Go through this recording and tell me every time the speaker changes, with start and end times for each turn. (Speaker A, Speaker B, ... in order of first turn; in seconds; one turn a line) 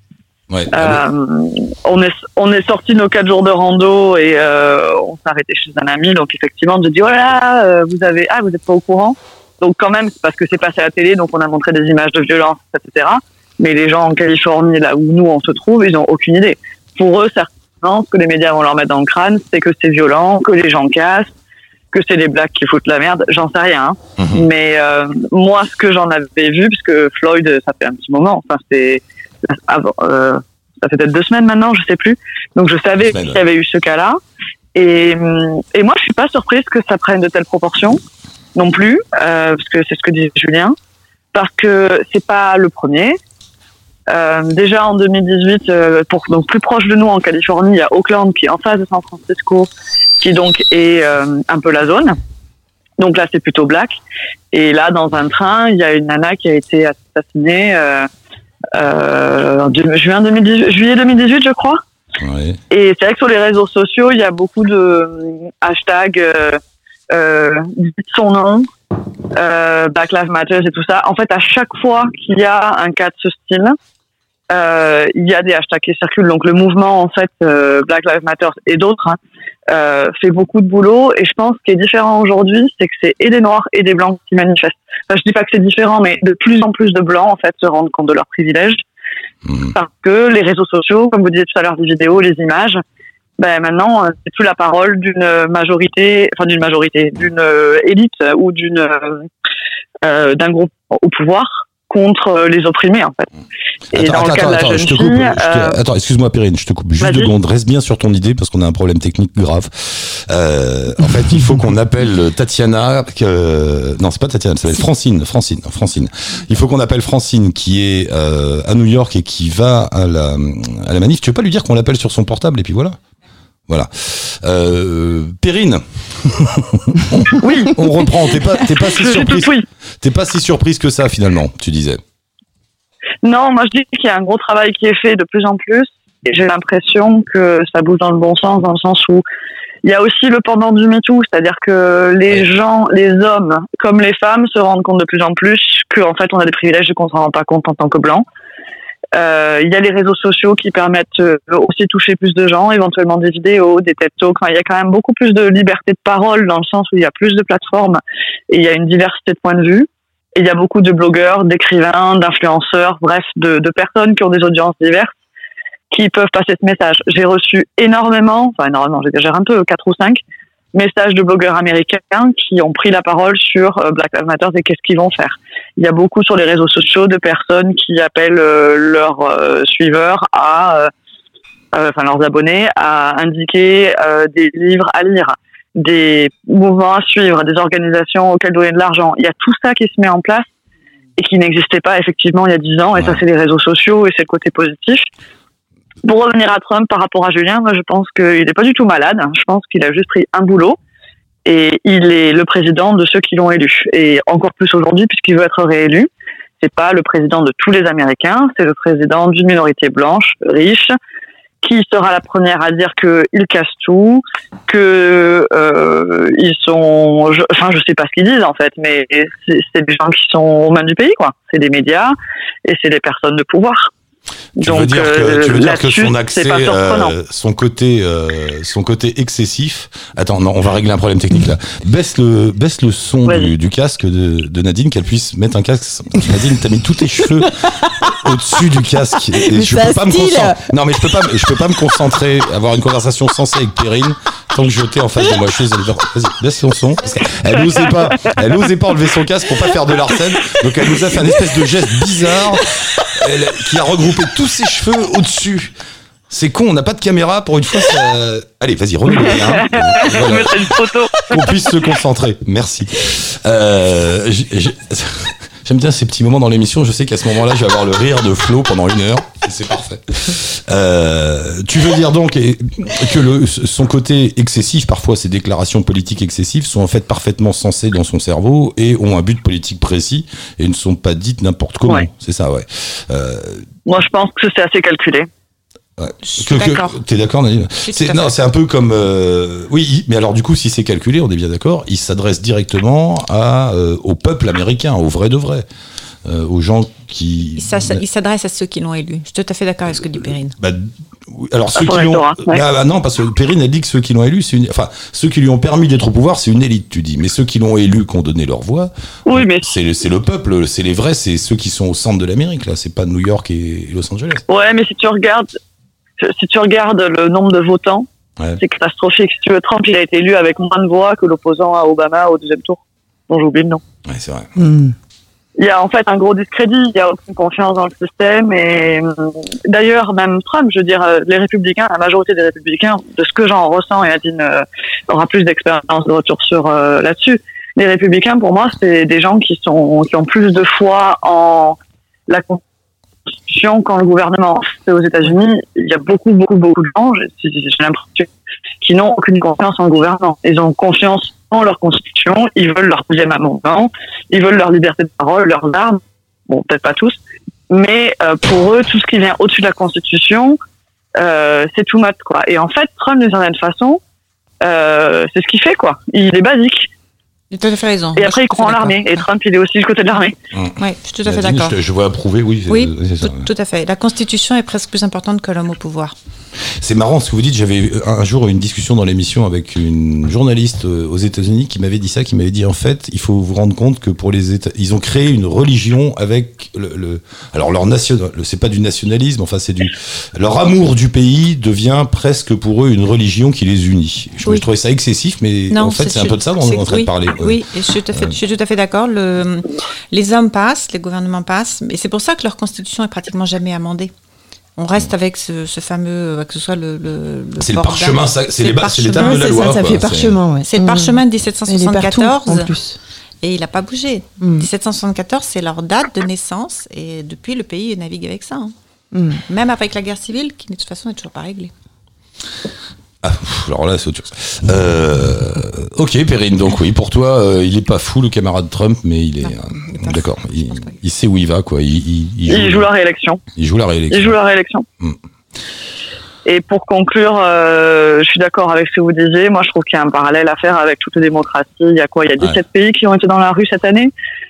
Speaker A: 0.5-1.0
Speaker B: 0.7-21.3
Speaker B: 21.9-34.2
Speaker A: 24.2-24.5
Speaker A: 33.0-33.4
Speaker B: 34.7-38.0
Speaker B: 38.5-40.8
Speaker B: 41.3-43.2
Speaker B: 44.1-52.2
Speaker B: 53.0-54.0
Speaker B: 54.5-58.1
Speaker B: 58.7-61.8
Speaker A: 62.2-62.6
Speaker B: 62.7-66.6
Speaker B: 67.1-68.7
Speaker B: 69.3-73.8
Speaker B: 74.5-79.2
Speaker B: 79.7-88.8
Speaker A: 89.5-89.7
Speaker B: 89.7-92.8
Speaker B: 93.4-99.3
Speaker B: 100.0-103.3
Speaker B: 103.9-105.8
Speaker A: 103.9-123.0
Speaker B: 107.0-107.3
Speaker A: 123.7-132.0
Speaker B: 127.4-129.6
Speaker B: 133.2-139.2
Speaker B: 139.8-148.2
Speaker B: 149.1-165.1
Speaker B: 165.9-170.2
Speaker B: 170.7-180.9
Speaker B: 181.7-190.5
Speaker B: 191.2-195.1
Speaker A: 192.9-193.2
Speaker B: 196.0-200.8
Speaker B: 201.4-206.1
Speaker B: 206.6-210.9
Speaker B: 211.6-222.1
Speaker B: 222.7-223.9
Speaker A: 224.6-237.6
Speaker B: 224.6-227.1
Speaker B: 233.2-233.5
Speaker C: 237.8-238.2
Speaker A: 238.1-255.7
Speaker C: 239.3-240.7
Speaker B: 247.7-248.4
Speaker A: 256.3-283.7
Speaker B: 259.1-261.7
Speaker B: 283.9-285.3
Speaker A: 286.0-295.6
Speaker D: 286.2-287.0
Speaker D: 287.9-288.3
Speaker A: 296.2-298.0
Speaker D: 297.6-300.6
Speaker A: 300.6-314.4
Speaker B: 301.7-302.6
Speaker B: 309.3-309.7
Speaker B: 314.5-315.5
Speaker B: 316.2-318.1
Speaker B: 318.6-323.8
Speaker A: 324.0-324.5
Speaker C: 324.6-324.9
Speaker B: 325.6-342.6
Speaker B: 343.5-348.3
Speaker B: 348.8-357.2
Speaker B: 357.7-360.6
Speaker B: 361.2-364.0
Speaker B: 364.6-366.9
Speaker D: 367.5-369.3
Speaker B: 368.1-370.3
Speaker A: 370.5-373.5
Speaker D: 370.8-371.8
Speaker D: 372.7-376.1
Speaker A: 376.7-397.6
Speaker D: 395.7-404.1
Speaker D: 404.8-409.9
Speaker A: 407.6-410.4
Speaker C: 409.1-413.0
Speaker D: 410.6-412.7
Speaker D: 413.4-418.7
Speaker C: 414.4-414.7
Speaker C: 419.1-419.4
Speaker D: 419.4-421.7
Speaker A: 423.2-432.9
Speaker D: 429.4-431.0
Speaker B: 432.4-433.4
Speaker A: 433.5-434.4
Speaker B: 434.1-434.9
Speaker B: 436.4-444.1